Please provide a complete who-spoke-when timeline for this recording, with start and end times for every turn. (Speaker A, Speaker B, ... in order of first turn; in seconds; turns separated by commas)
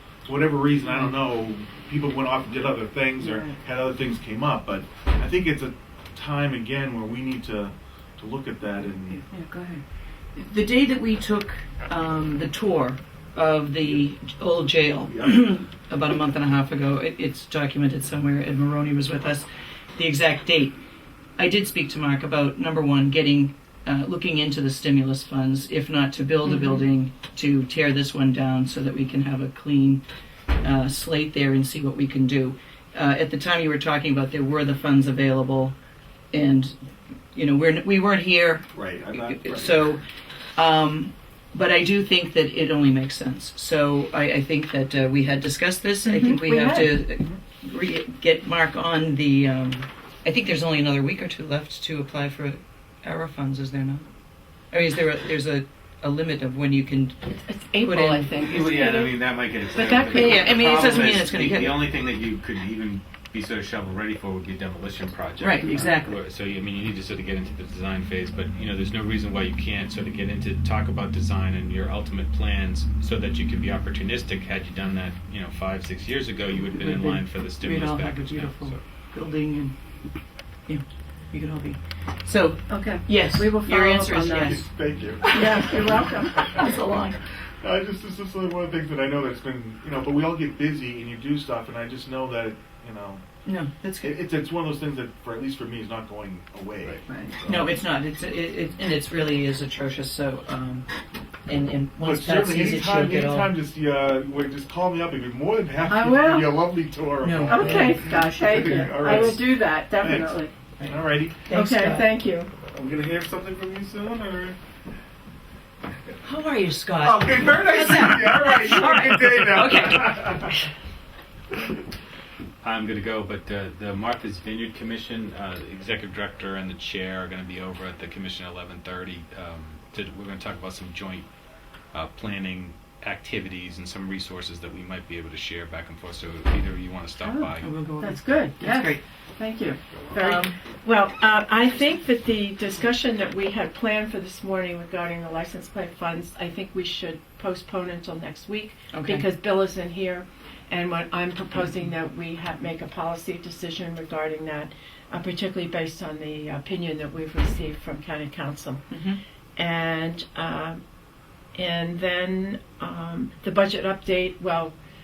Speaker A: 0.3-9.2, Speaker B: 3.2-3.5, Speaker C: 9.0-9.8, Speaker B: 9.3-9.8, Speaker C: 10.3-20.8, Speaker A: 15.1-15.4, Speaker C: 21.4-30.0, Speaker B: 26.5-26.8, Speaker C: 30.6-35.8, Speaker C: 36.3-36.8, Speaker C: 37.3-40.0, Speaker A: 38.7-39.8, Speaker C: 40.6-54.0, Speaker B: 46.0-47.0, Speaker C: 54.7-57.2, Speaker B: 57.3-61.2, Speaker C: 57.8-58.9, Speaker D: 58.4-78.8, Speaker C: 60.1-61.9, Speaker C: 65.4-66.2, Speaker C: 76.6-79.8, Speaker C: 80.7-84.7, Speaker B: 82.7-84.6, Speaker A: 84.3-86.9, Speaker C: 85.2-87.2, Speaker B: 85.3-86.6, Speaker A: 87.6-93.2, Speaker C: 93.5-94.1, Speaker A: 94.0-97.7, Speaker B: 97.1-97.3, Speaker C: 97.5-100.9, Speaker C: 101.5-103.5, Speaker A: 102.0-111.5, Speaker B: 105.8-106.6, Speaker C: 107.2-109.4, Speaker B: 107.5-110.5, Speaker C: 110.8-112.1, Speaker B: 111.5-112.5, Speaker A: 112.7-114.6, Speaker C: 116.2-120.5, Speaker A: 117.0-120.6, Speaker D: 122.6-131.3, Speaker D: 131.9-137.7, Speaker B: 137.2-158.8, Speaker C: 137.6-139.0, Speaker C: 140.2-140.6, Speaker C: 148.9-149.2, Speaker C: 158.9-159.2, Speaker B: 159.6-160.8, Speaker B: 161.6-164.8